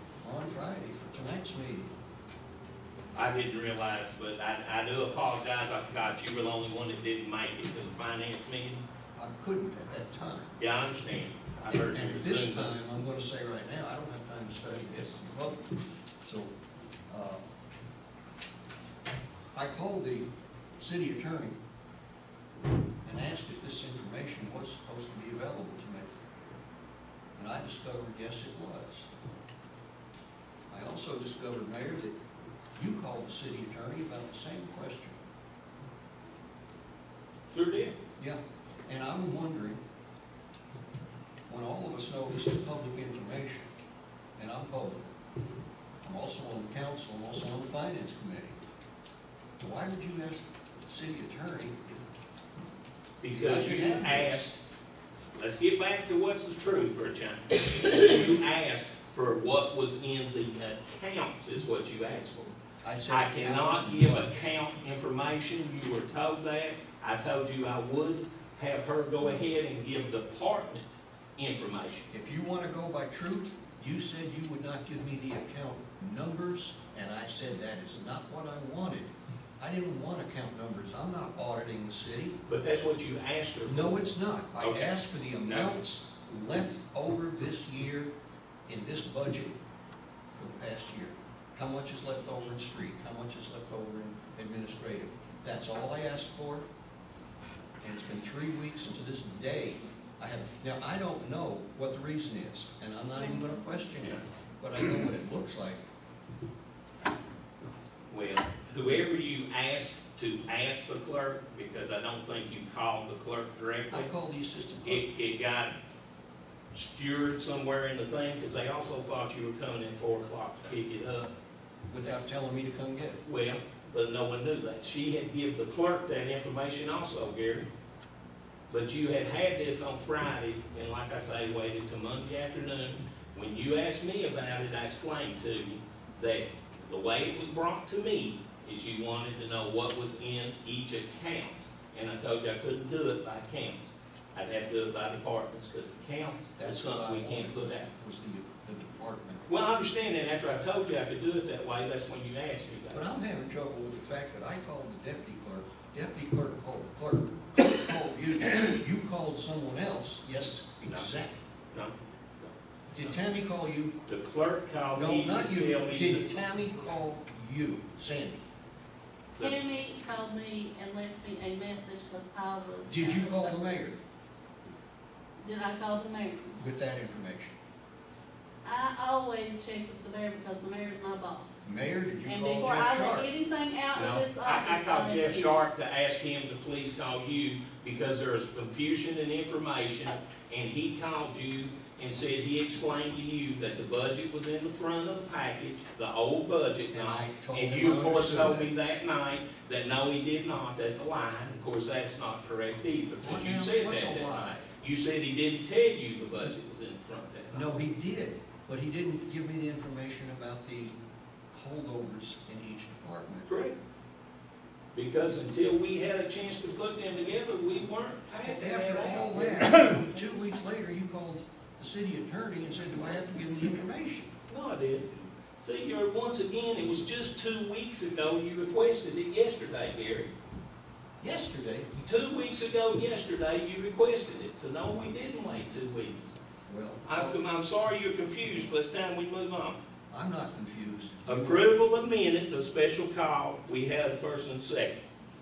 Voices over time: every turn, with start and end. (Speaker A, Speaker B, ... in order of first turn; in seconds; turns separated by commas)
Speaker A: 0.2-1.9, Speaker B: 3.1-8.8, Speaker A: 9.2-10.6, Speaker B: 10.6-12.9, Speaker A: 11.7-15.7, Speaker A: 16.2-16.5, Speaker A: 17.1-17.4, Speaker A: 19.5-21.6, Speaker A: 23.0-26.1, Speaker A: 27.4-29.1, Speaker A: 30.7-32.1, Speaker A: 32.8-35.1, Speaker B: 37.5-37.9, Speaker A: 38.2-39.8, Speaker A: 41.5-43.7, Speaker A: 44.4-45.1, Speaker A: 46.0-48.6, Speaker A: 49.6-52.0, Speaker B: 53.2-54.6, Speaker A: 53.3-54.4, Speaker B: 55.4-62.5, Speaker A: 62.8-64.4, Speaker B: 63.1-72.1, Speaker A: 72.1-82.4, Speaker B: 82.5-84.1, Speaker A: 83.6-88.1, Speaker B: 84.6-85.8, Speaker A: 88.7-89.5, Speaker A: 90.3-96.7, Speaker A: 97.8-105.8, Speaker C: 103.2-103.5, Speaker B: 108.1-114.1, Speaker A: 113.9-115.0, Speaker B: 114.8-115.7, Speaker B: 116.7-121.3, Speaker A: 121.9-123.2, Speaker B: 123.2-127.7, Speaker B: 128.7-147.9, Speaker A: 146.6-149.4, Speaker B: 149.5-153.1, Speaker A: 152.9-161.4, Speaker B: 161.7-163.1, Speaker A: 162.9-163.9, Speaker B: 164.1-166.4, Speaker A: 164.9-168.4, Speaker C: 169.4-173.8, Speaker A: 172.8-174.0, Speaker C: 175.4-176.6, Speaker A: 176.6-177.5, Speaker C: 178.6-181.6, Speaker A: 181.6-183.3, Speaker C: 182.2-185.6, Speaker B: 183.9-207.8, Speaker A: 196.9-198.7, Speaker A: 203.2-204.7, Speaker A: 207.5-210.9, Speaker A: 211.5-213.5, Speaker B: 213.5-213.7, Speaker B: 214.9-220.0, Speaker A: 218.4-224.3, Speaker B: 224.5-230.3, Speaker A: 231.2-231.9, Speaker B: 231.9-236.4, Speaker A: 236.7-237.4, Speaker B: 237.0-239.8, Speaker A: 240.1-241.7, Speaker B: 241.2-245.0